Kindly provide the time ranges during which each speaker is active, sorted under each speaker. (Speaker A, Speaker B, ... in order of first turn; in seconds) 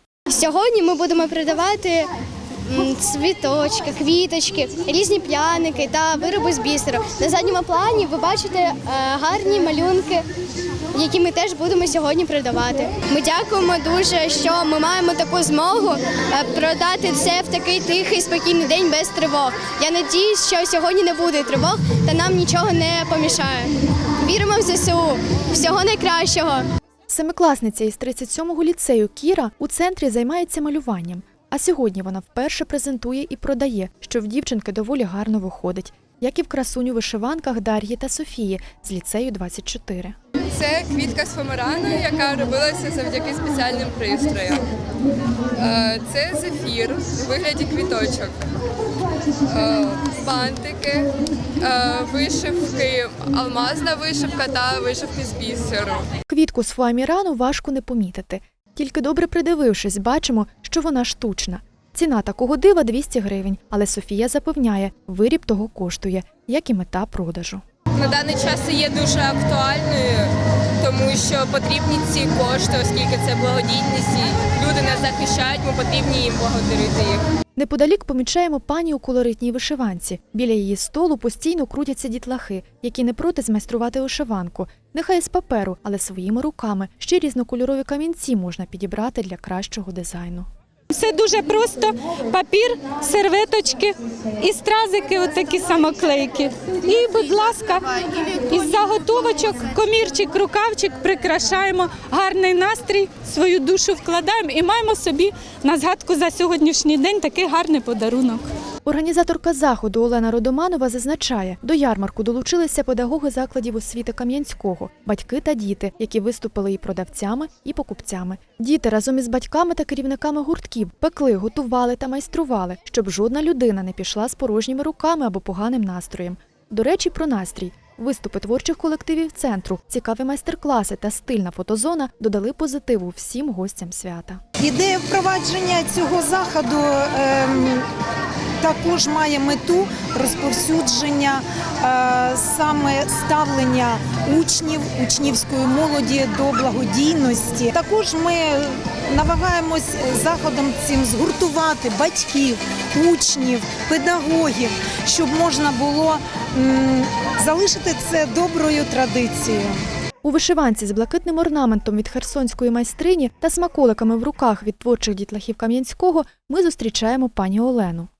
Speaker A: 0.3-2.1, 2.7-10.3, 10.9-26.7
Speaker B: 27.1-40.2, 56.3-67.6, 77.6-90.5, 108.8-134.4, 160.2-168.1
Speaker C: 40.6-44.6, 45.6-48.3, 49.5-51.0, 51.6-56.0, 68.0-70.3, 70.8-77.2
Speaker D: 90.9-108.5
Speaker E: 134.6-137.9, 138.6-159.8